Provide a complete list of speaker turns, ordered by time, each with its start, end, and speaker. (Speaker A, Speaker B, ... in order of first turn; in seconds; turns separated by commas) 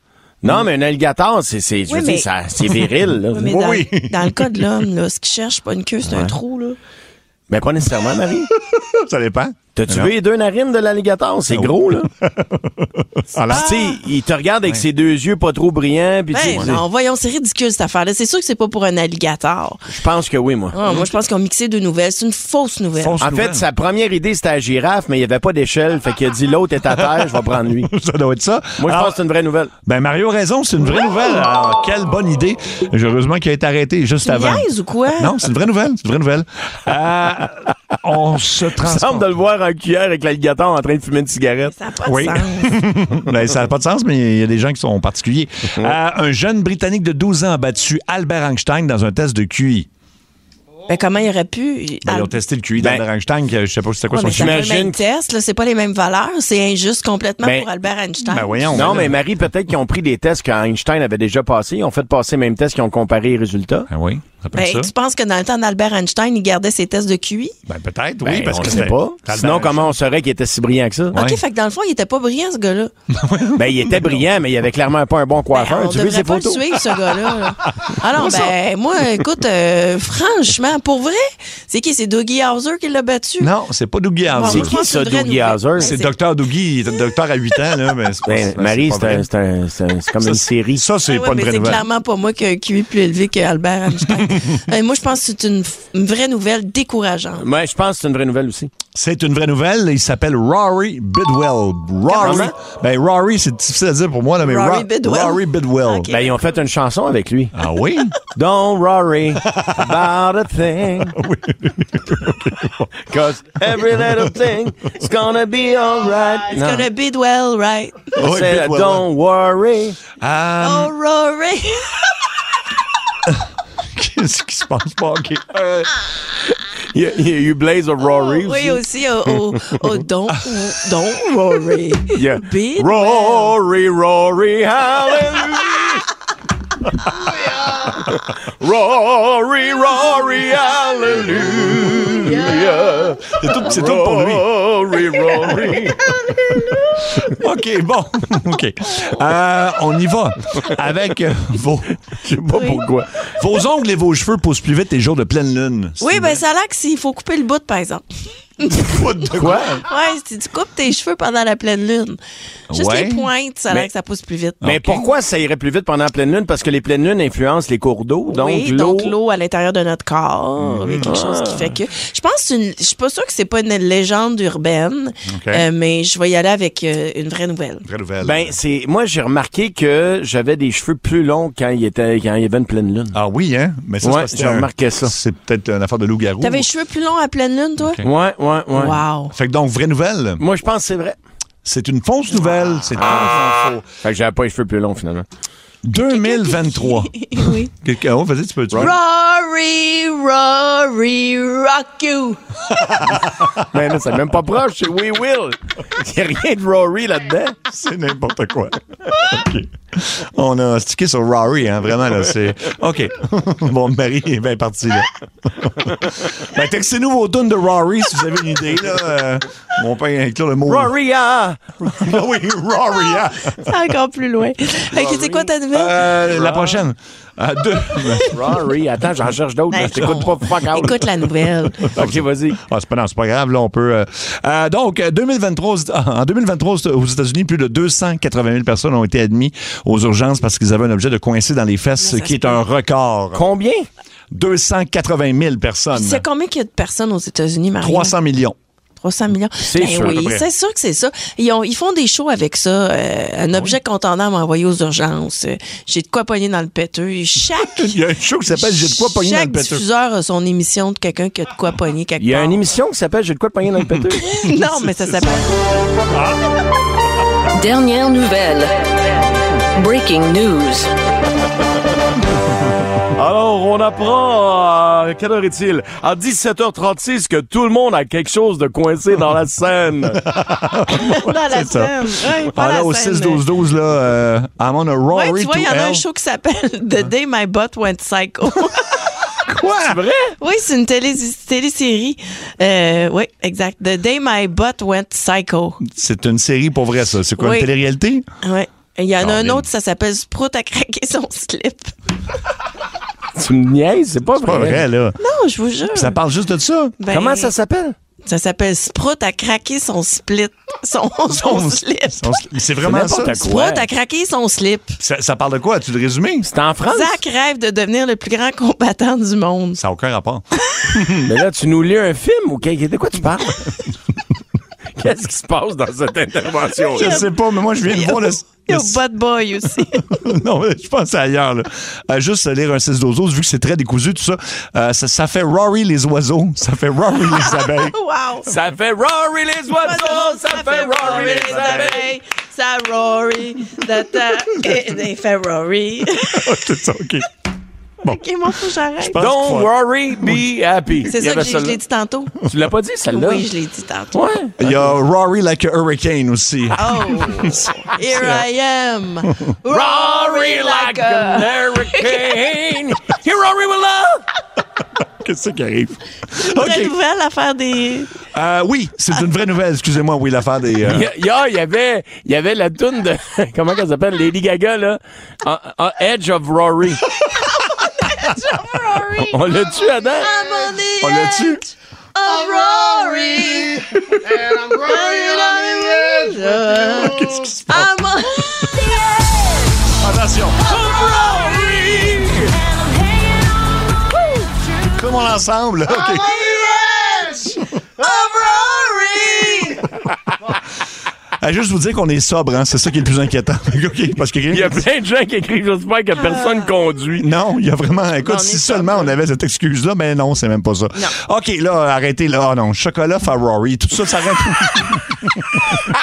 Speaker A: 0.4-3.5, Speaker B: 1.9-6.8, Speaker C: 3.4-4.5, Speaker A: 6.0-6.3, Speaker A: 7.5-8.5, Speaker C: 8.6-10.1, Speaker A: 9.8-12.1, Speaker C: 11.5-13.9, Speaker A: 13.5-16.8, Speaker B: 13.5-14.0, Speaker B: 16.3-20.0, Speaker C: 16.5-16.8, Speaker A: 19.9-21.1, Speaker B: 20.7-23.2, Speaker C: 23.0-23.6, Speaker A: 23.2-27.9, Speaker C: 26.9-29.1, Speaker A: 28.8-29.7, Speaker C: 29.9-34.7, Speaker B: 34.2-35.4, Speaker C: 35.2-39.3, Speaker A: 38.8-41.7, Speaker B: 41.7-42.8, Speaker C: 42.0-49.9, Speaker B: 50.9-52.4, Speaker C: 52.0-54.7, Speaker A: 52.8-53.0, Speaker B: 54.1-59.1, Speaker A: 54.3-55.0, Speaker A: 57.4-57.7, Speaker C: 58.3-59.2, Speaker A: 58.7-63.9, Speaker C: 63.9-64.9, Speaker B: 64.5-67.5, Speaker C: 67.7-69.9, Speaker A: 68.2-71.2, Speaker C: 71.1-71.4, Speaker B: 71.2-72.9, Speaker C: 73.1-74.2, Speaker A: 73.6-76.8, Speaker B: 75.5-83.5, Speaker C: 77.6-78.5, Speaker C: 83.4-84.8, Speaker B: 84.3-86.1, Speaker A: 84.5-85.9, Speaker C: 85.8-89.3, Speaker A: 88.3-90.9, Speaker C: 90.2-91.8, Speaker B: 91.0-97.5, Speaker A: 97.4-98.7, Speaker C: 99.0-106.1, Speaker B: 102.1-102.5, Speaker A: 102.2-102.5, Speaker B: 104.4-106.5, Speaker A: 106.1-107.5, Speaker C: 107.5-108.2, Speaker A: 108.3-111.2, Speaker C: 109.4-110.0, Speaker C: 111.1-112.9, Speaker A: 113.0-116.9, Speaker B: 116.5-118.2, Speaker C: 118.2-119.1, Speaker A: 118.2-120.0, Speaker C: 120.2-120.9, Speaker B: 120.6-122.3, Speaker C: 123.2-125.9, Speaker A: 126.8-128.8, Speaker B: 128.0-133.6, Speaker A: 132.1-136.1, Speaker A: 137.2-146.8, Speaker C: 143.3-144.5, Speaker C: 146.7-152.0, Speaker A: 152.2-153.2, Speaker B: 152.5-152.8, Speaker C: 153.3-156.4, Speaker B: 156.0-162.2, Speaker C: 158.7-159.8, Speaker A: 159.3-159.8, Speaker C: 162.7-163.3, Speaker B: 162.7-165.0, Speaker C: 164.6-165.0, Speaker A: 164.6-169.2, Speaker B: 168.3-177.8, Speaker C: 170.6-171.1, Speaker A: 171.0-171.8, Speaker C: 175.3-175.7, Speaker C: 177.8-178.6, Speaker A: 178.2-183.2, Speaker C: 183.1-186.7, Speaker A: 184.0-185.2, Speaker B: 186.4-188.0, Speaker C: 187.8-188.1, Speaker A: 188.1-189.0, Speaker B: 188.7-189.3, Speaker C: 189.3-190.4, Speaker A: 190.4-191.2, Speaker C: 191.7-193.9, Speaker A: 194.0-195.2, Speaker C: 195.8-198.9, Speaker B: 196.1-197.7, Speaker B: 198.8-202.4, Speaker C: 202.7-203.7, Speaker A: 203.7-207.6, Speaker C: 207.7-220.9, Speaker A: 220.7-221.6, Speaker C: 221.8-223.7, Speaker B: 223.4-226.1, Speaker A: 224.9-225.5, Speaker C: 225.7-228.4, Speaker A: 226.2-226.8, Speaker A: 228.3-231.1, Speaker B: 229.7-231.9, Speaker C: 231.8-243.4, Speaker A: 231.9-232.6, Speaker B: 242.0-242.6, Speaker A: 243.3-243.9, Speaker C: 244.3-246.2, Speaker B: 245.9-248.2, Speaker C: 247.8-248.5, Speaker B: 249.0-258.0, Speaker A: 249.6-250.3, Speaker C: 250.0-250.4, Speaker C: 257.5-259.8, Speaker B: 258.5-262.6, Speaker A: 262.2-264.4, Speaker B: 264.2-265.6, Speaker C: 264.6-264.9, Speaker B: 267.5-268.7, Speaker B: 269.7-270.9, Speaker A: 273.1-280.2, Speaker C: 280.2-286.0, Speaker B: 280.9-283.4, Speaker B: 285.1-289.4, Speaker C: 289.2-290.0, Speaker A: 289.8-290.4, Speaker B: 290.4-295.8, Speaker C: 295.8-298.2, Speaker B: 297.4-297.7, Speaker B: 298.4-301.9, Speaker C: 299.2-299.7, Speaker A: 303.3-304.8, Speaker C: 304.4-305.2, Speaker B: 305.2-306.2, Speaker C: 305.9-306.9, Speaker B: 307.0-307.5, Speaker A: 307.1-307.9, Speaker B: 308.2-312.4, Speaker C: 311.3-313.4, Speaker A: 312.8-313.9, Speaker B: 313.2-315.0, Speaker C: 315.0-316.5, Speaker A: 316.4-317.2, Speaker B: 316.9-319.8, Speaker C: 319.8-321.2, Speaker B: 320.6-321.1, Speaker A: 321.2-323.7, Speaker A: 324.9-327.3, Speaker B: 326.8-327.3, Speaker C: 326.9-329.0, Speaker B: 327.8-330.0, Speaker C: 330.1-337.9, Speaker B: 337.2-338.5, Speaker A: 338.4-342.1, Speaker B: 339.7-346.7, Speaker C: 341.3-341.9, Speaker C: 346.2-347.3, Speaker B: 348.0-349.2, Speaker C: 348.0-349.7, Speaker A: 349.2-351.8, Speaker B: 351.1-352.4, Speaker A: 352.4-353.5, Speaker B: 353.1-354.2, Speaker A: 354.1-354.9, Speaker C: 354.6-358.4, Speaker B: 356.7-362.5, Speaker A: 359.6-364.2, Speaker C: 365.0-366.9, Speaker B: 366.3-368.2, Speaker C: 368.3-371.1, Speaker A: 370.9-377.0, Speaker C: 377.2-377.5, Speaker B: 377.6-389.9, Speaker A: 379.2-380.3, Speaker C: 381.0-381.6, Speaker C: 386.8-387.9, Speaker C: 389.9-390.7, Speaker B: 390.6-394.7, Speaker A: 390.9-392.1, Speaker C: 394.9-396.7, Speaker B: 396.3-399.8, Speaker C: 397.5-397.8, Speaker C: 401.4-404.8, Speaker A: 404.5-407.2, Speaker B: 406.1-406.7, Speaker C: 407.2-415.8, Speaker B: 408.2-409.1